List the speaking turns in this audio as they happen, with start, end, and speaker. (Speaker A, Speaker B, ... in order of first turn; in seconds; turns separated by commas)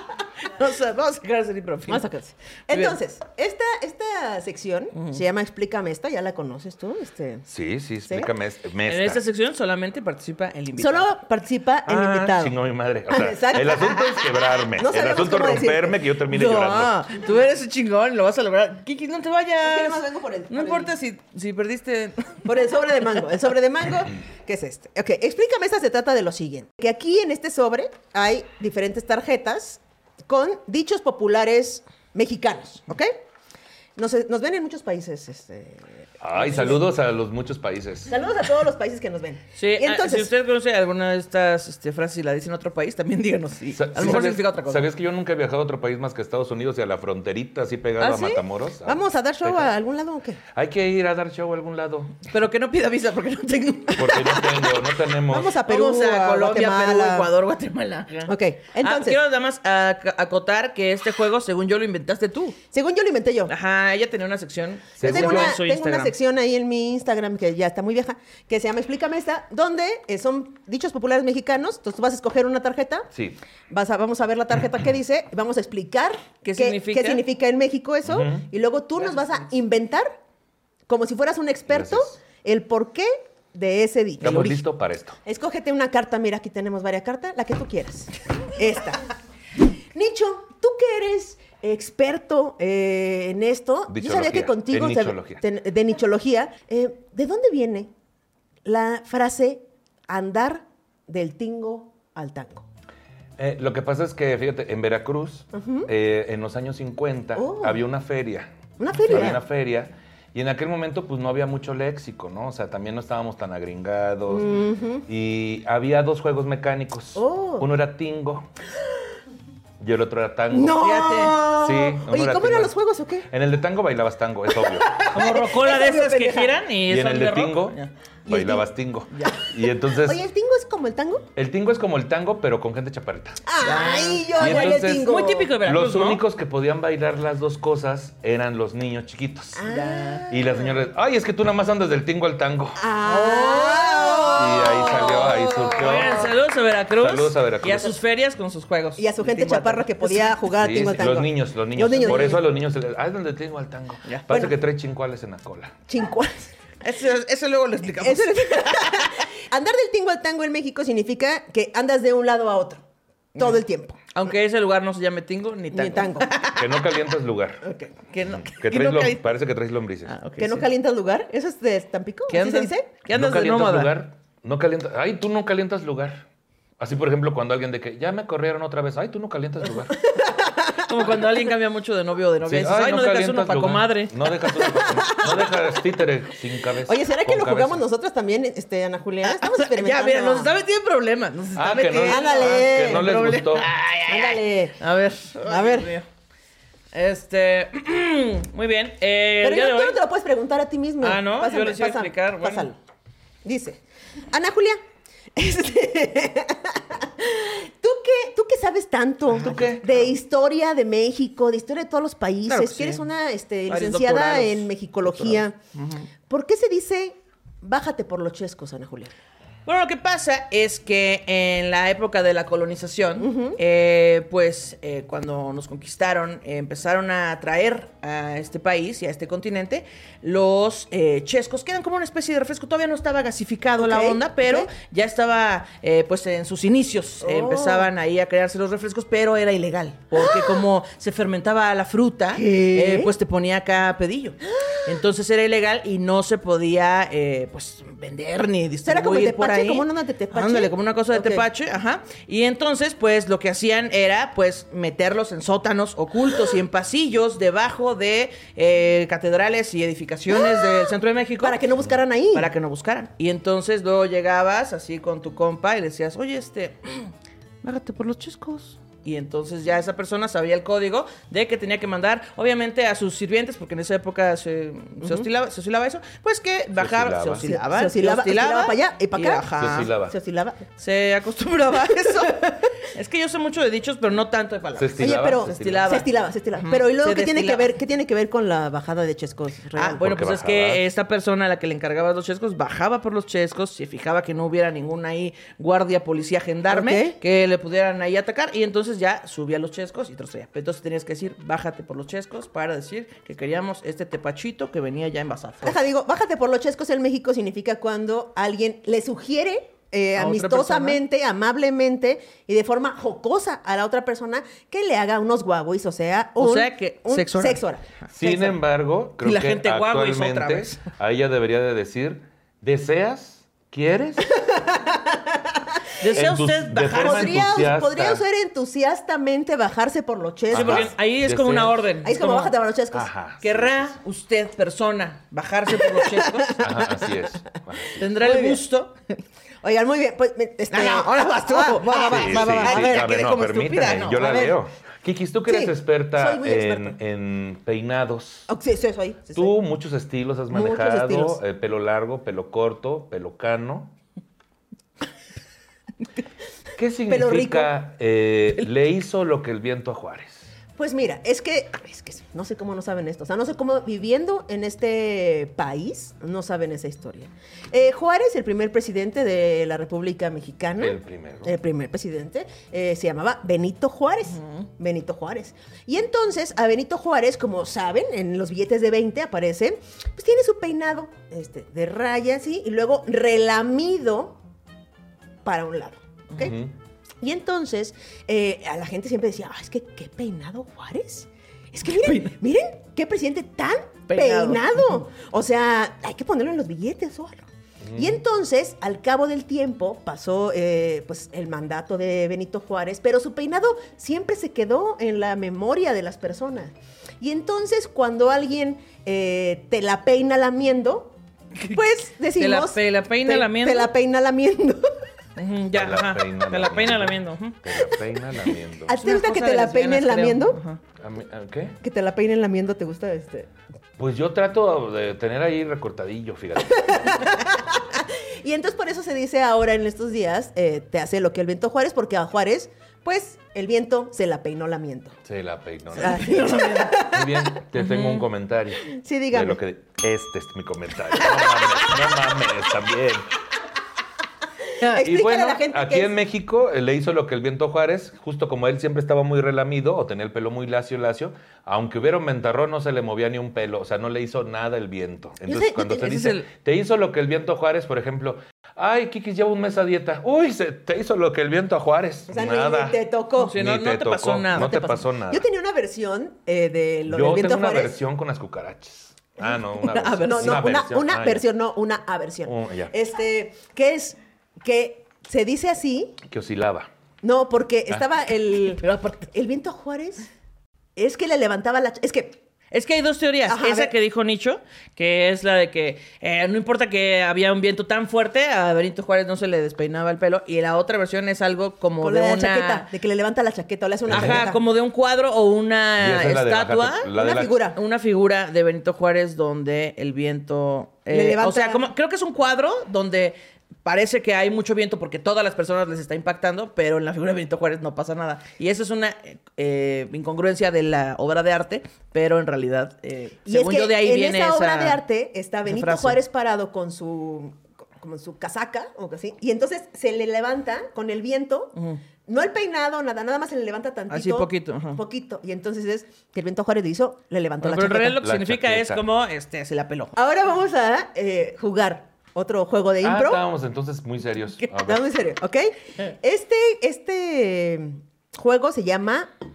Speaker A: 0.5-2.0, Speaker B: 1.9-7.5, Speaker A: 2.7-3.0, Speaker C: 7.5-9.2, Speaker A: 8.8-11.1, Speaker B: 10.8-12.6, Speaker C: 11.8-17.0, Speaker B: 13.1-16.0, Speaker A: 16.3-22.4, Speaker B: 19.6-20.9, Speaker B: 22.4-33.1, Speaker B: 34.0-36.8, Speaker C: 36.2-38.1, Speaker B: 38.1-40.3, Speaker A: 39.6-44.9, Speaker C: 43.7-49.7, Speaker B: 48.0-50.4, Speaker C: 50.5-52.2, Speaker A: 52.3-54.7, Speaker C: 53.9-55.6, Speaker B: 55.3-57.3, Speaker A: 55.6-62.6, Speaker B: 58.3-59.2, Speaker B: 62.7-63.5, Speaker A: 63.5-66.1, Speaker C: 65.0-65.6, Speaker B: 65.0-73.1, Speaker C: 73.1-73.4, Speaker B: 73.7-80.2, Speaker A: 76.4-77.2, Speaker C: 78.0-78.4, Speaker B: 80.9-84.6, Speaker C: 81.7-82.1, Speaker C: 84.2-85.2, Speaker B: 85.2-89.1, Speaker B: 89.9-97.9, Speaker C: 93.9-95.4, Speaker B: 98.6-102.7, Speaker C: 103.4-108.5, Speaker B: 105.5-105.9, Speaker B: 107.3-107.8, Speaker B: 108.8-109.4, Speaker C: 109.1-118.5, Speaker B: 114.3-115.0, Speaker B: 117.1-117.7, Speaker C: 119.8-120.8, Speaker B: 120.5-123.3, Speaker A: 120.8-121.5, Speaker C: 121.4-122.7, Speaker C: 123.3-124.9, Speaker B: 124.6-126.6, Speaker A: 125.1-127.9, Speaker C: 126.8-130.2, Speaker B: 128.2-128.7, Speaker A: 129.1-129.4, Speaker B: 129.9-131.3, Speaker C: 131.3-133.4, Speaker B: 133.4-135.5, Speaker A: 133.6-136.2, Speaker C: 134.4-139.6, Speaker B: 139.6-140.7, Speaker A: 139.7-140.3, Speaker C: 140.3-142.8, Speaker B: 142.8-146.2, Speaker A: 143.0-150.4, Speaker C: 144.3-146.4, Speaker C: 146.9-148.0, Speaker B: 149.0-152.5, Speaker C: 150.6-155.8, Speaker A: 152.0-152.3, Speaker B: 155.9-156.5, Speaker A: 156.8-159.1, Speaker B: 158.0-162.8, Speaker B: 163.3-164.0, Speaker A: 164.1-166.7, Speaker B: 165.7-166.4, Speaker C: 166.5-167.6, Speaker B: 167.6-167.9, Speaker A: 168.0-169.3, Speaker C: 168.2-170.1, Speaker A: 170.1-170.7, Speaker B: 170.4-172.9, Speaker A: 172.3-173.9, Speaker C: 173.1-176.2, Speaker C: 176.8-180.0, Speaker B: 180.0-181.2, Speaker A: 180.8-184.2, Speaker C: 182.4-187.8, Speaker B: 184.6-185.5, Speaker B: 186.8-190.5, Speaker A: 189.2-196.1, Speaker C: 191.5-193.7, Speaker B: 192.0-193.1, Speaker B: 194.1-194.8, Speaker B: 195.4-195.9, Speaker A: 196.9-200.0, Speaker B: 199.4-202.8, Speaker A: 201.0-202.7, Speaker B: 203.4-203.8, Speaker B: 204.3-204.8, Speaker B: 205.3-215.6, Speaker C: 209.3-210.1, Speaker A: 212.5-213.0, Speaker A: 213.7-216.1, Speaker B: 216.3-219.1, Speaker A: 219.7-261.6, Speaker B: 223.2-223.6, Speaker B: 233.8-234.7, Speaker B: 237.2-237.9, Speaker B: 240.1-240.6, Speaker B: 242.3-243.1, Speaker B: 248.8-251.4, Speaker B: 260.3-262.5, Speaker A: 262.3-267.1, Speaker A: 267.6-279.9, Speaker C: 276.8-277.5, Speaker B: 277.4-280.6, Speaker C: 279.6-280.1, Speaker A: 280.8-287.7, Speaker C: 284.7-285.9, Speaker B: 285.0-290.0, Speaker A: 289.8-305.8, Speaker C: 290.0-290.8, Speaker B: 296.7-297.2, Speaker B: 305.6-317.9, Speaker A: 310.1-311.0, Speaker A: 316.4-317.6, Speaker C: 318.1-324.3, Speaker A: 318.2-318.6, Speaker A: 319.2-320.8, Speaker B: 324.4-325.5, Speaker A: 326.0-327.4, Speaker C: 326.1-328.2, Speaker B: 326.9-330.9, Speaker C: 330.5-331.8, Speaker A: 330.5-332.5, Speaker B: 332.0-333.1, Speaker C: 332.9-333.9, Speaker A: 333.4-336.6, Speaker B: 335.8-337.1, Speaker C: 336.6-338.1, Speaker A: 338.0-339.0, Speaker B: 338.2-338.6, Speaker B: 339.6-343.1, Speaker A: 340.7-344.5, Speaker C: 342.1-348.5, Speaker B: 344.1-344.5, Speaker B: 345.4-347.0, Speaker B: 348.5-349.6, Speaker C: 349.3-353.9, Speaker B: 350.5-351.4, Speaker C: 356.8-360.5, Speaker B: 357.1-357.7, Speaker B: 360.8-384.4, Speaker C: 370.8-371.5, Speaker B: 385.4-386.5, Speaker C: 386.4-386.7, Speaker B: 387.2-414.9, Speaker A: 392.0-392.3, Speaker A: 394.1-395.0, Speaker C: 397.8-398.2, Speaker A: 412.3-413.9, Speaker A: 415.4-417.7, Speaker C: 415.7-418.9, Speaker B: 418.9-420.6, Speaker A: 419.0-420.8, Speaker C: 421.0-421.8, Speaker B: 421.8-423.5, Speaker C: 424.0-427.2, Speaker B: 426.8-435.2, Speaker C: 435.2-443.3, Speaker B: 436.0-437.5, Speaker A: 436.0-436.9, Speaker A: 437.8-438.2, Speaker B: 438.8-439.6, Speaker B: 444.8-446.1, Speaker C: 444.9-463.0, Speaker B: 455.4-456.1, Speaker A: 455.9-456.5, Speaker B: 462.3-463.6, Speaker A: 463.4-464.9, Speaker C: 463.5-465.5, Speaker B: 464.5-467.9, Speaker C: 467.1-471.4, Speaker A: 469.7-470.6, Speaker B: 470.2-476.2, Speaker C: 472.4-472.9, Speaker C: 476.3-476.9, Speaker B: 477.2-480.3, Speaker A: 478.8-479.3, Speaker B: 480.9-482.4, Speaker A: 482.7-492.9, Speaker B: 483.5-483.9, Speaker B: 492.0-494.6, Speaker C: 494.1-494.4, Speaker A: 494.1-497.1, Speaker C: 496.0-497.6, Speaker B: 497.1-497.8, Speaker A: 497.7-515.0, Speaker B: 501.1-501.8, Speaker B: 513.5-528.2, Speaker A: 515.6-516.2, Speaker A: 524.1-525.0, Speaker A: 527.6-530.1, Speaker C: 528.2-529.0, Speaker B: 530.1-533.4, Speaker C: 533.0-535.0, Speaker B: 534.8-539.3